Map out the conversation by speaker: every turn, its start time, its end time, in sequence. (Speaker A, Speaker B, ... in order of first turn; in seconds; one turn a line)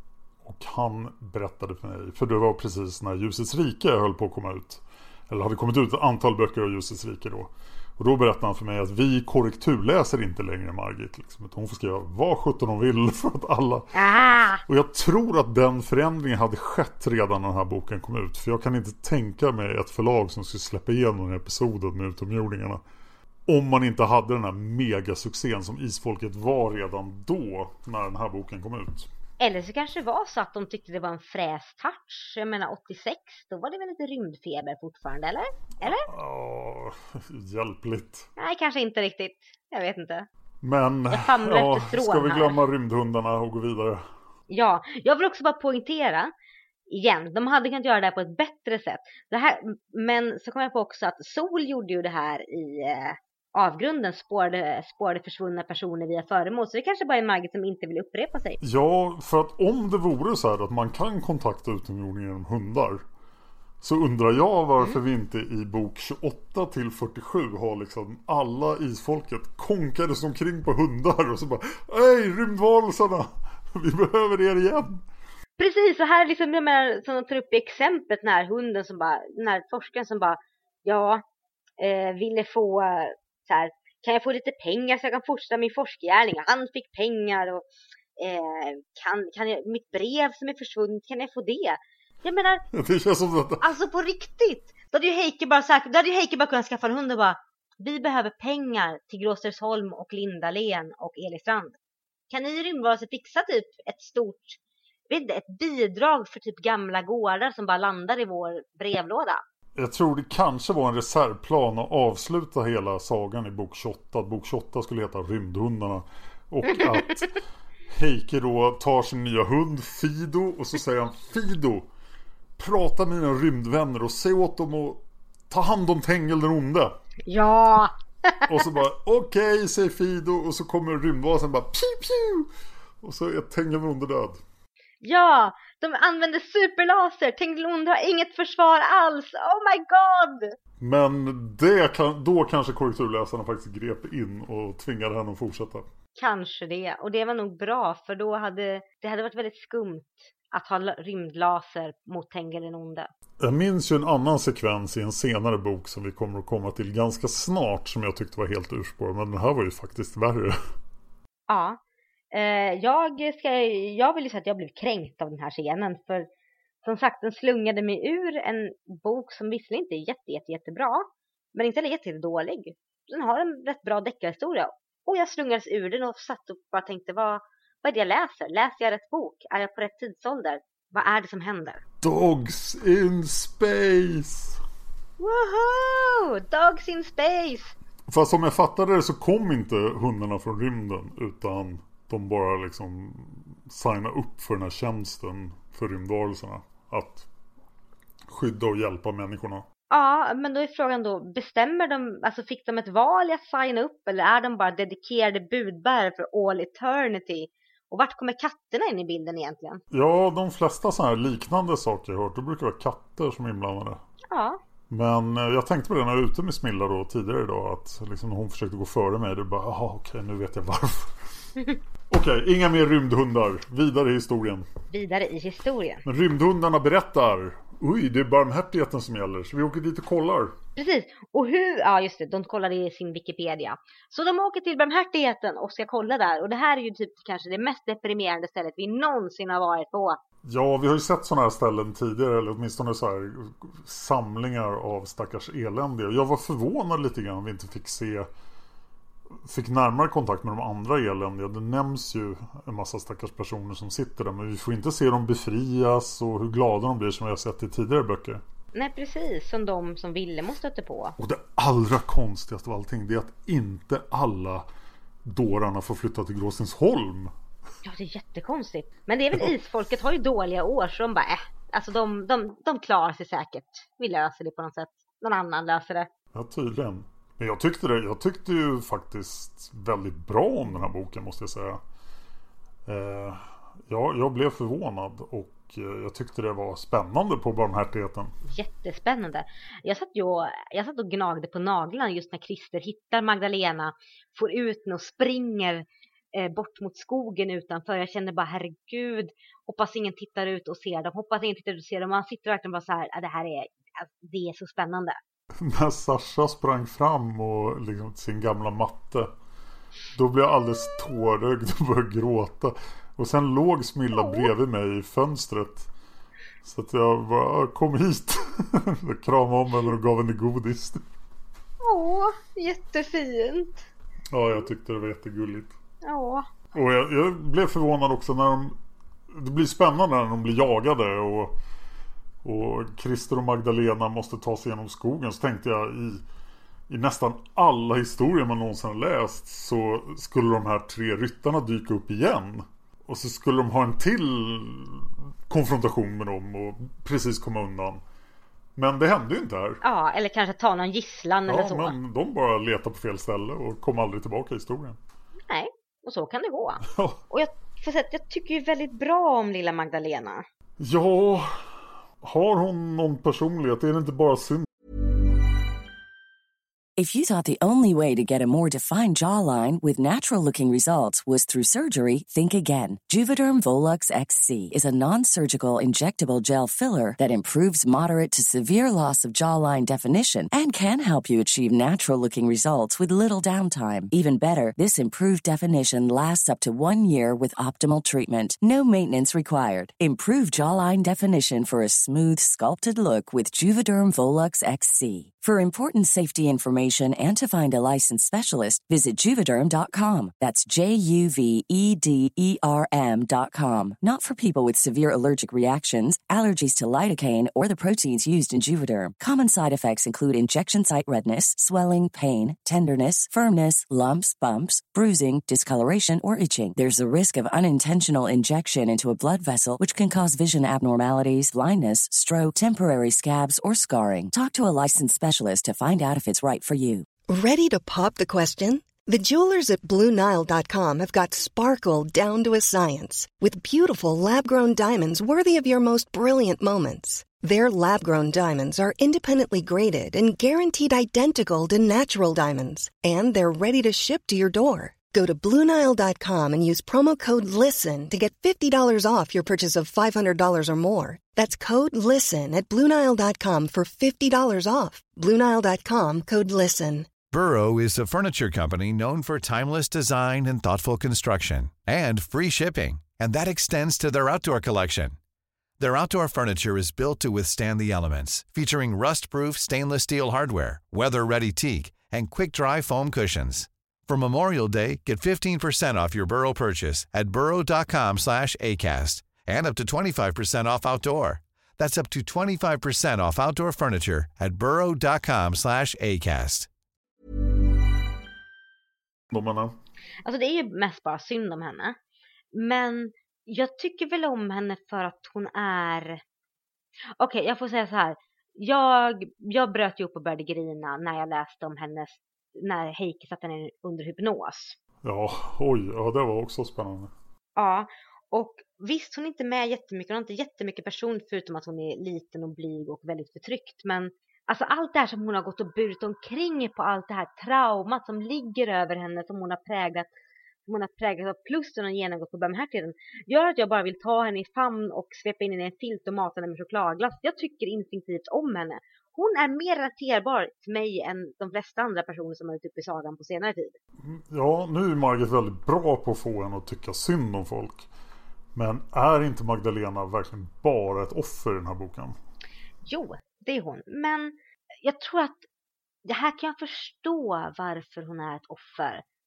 Speaker A: 0.4-13.9
Speaker B: 13.9-14.6
Speaker A: 14.6-22.8
Speaker A: 23.5-29.1
Speaker B: 29.4-36.1
Speaker A: 36.0-38.3
Speaker B: 38.4-40.3
Speaker A: 40.6-44.0
Speaker B: 41.1-42.6
Speaker B: 44.5-46.3
Speaker B: 46.9-58.6
Speaker A: 58.6-63.0
Speaker A: 63.8-75.0
Speaker B: 75.6-81.2
Speaker B: 81.8-87.6
Speaker B: 88.2-92.6
Speaker A: 92.7-93.7
Speaker B: 93.6-101.8
Speaker B: 102.3-104.6
Speaker B: 105.1-109.4
Speaker A: 109.8-117.4
Speaker B: 116.7-117.2
Speaker A: 117.9-121.9
Speaker A: 122.6-126.9
Speaker B: 127.3-128.5
Speaker A: 128.5-132.5
Speaker A: 133.0-134.4
Speaker B: 135.0-140.5
Speaker A: 140.8-145.9
Speaker B: 146.2-153.1
Speaker A: 153.4-160.6
Speaker B: 161.5-161.8
Speaker B: 162.3-166.3
Speaker B: 166.8-181.8
Speaker A: 182.0-184.6
Speaker B: 185.2-187.7
Speaker A: 188.1-197.3
Speaker A: 198.3-199.7
Speaker B: 199.9-209.8
Speaker A: 209.9-214.0
Speaker B: 214.3-214.6
Speaker A: 214.9-221.2
Speaker A: 222.1-224.7
Speaker B: 224.9-226.0
Speaker A: 226.0-230.6
Speaker B: 230.8-240.2
Speaker A: 240.4-248.3
Speaker A: 249.4-258.4
Speaker B: 258.7-261.1
Speaker A: 261.2-264.7
Speaker A: 265.2-267.3
Speaker B: 267.8-276.1
Speaker A: 276.3-281.8
Speaker A: 282.9-288.3
Speaker B: 288.4-305.2
Speaker A: 305.6-309.3
Speaker A: 310.1-315.9
Speaker B: 314.1-314.5
Speaker A: 316.6-321.0
Speaker B: 321.8-323.9
Speaker A: 324.3-325.7
Speaker B: 326.0-326.4
Speaker A: 326.7-328.8
Speaker A: 329.3-331.6
Speaker A: 332.4-336.2
Speaker A: 336.9-348.0
Speaker A: 348.8-349.8
Speaker B: 349.8-351.9
Speaker A: 351.5-355.0
Speaker B: 355.5-360.4
Speaker A: 356.9-357.2
Speaker A: 360.8-364.7
Speaker C: 367.0-427.1
Speaker D: 427.3-457.1
Speaker E: 457.3-465.2
Speaker E: 465.8-486.7
Speaker A: 489.3-489.7
Speaker B: 490.2-491.9
Speaker B: 492.5-496.2
Speaker B: 497.2-504.8
Speaker A: 505.0-507.1
Speaker B: 507.6-520.1
Speaker B: 520.7-533.8
Speaker A: 534.0-537.9
Speaker A: 538.5-542.1
Speaker B: 542.8-545.4
Speaker B: 546.0-549.0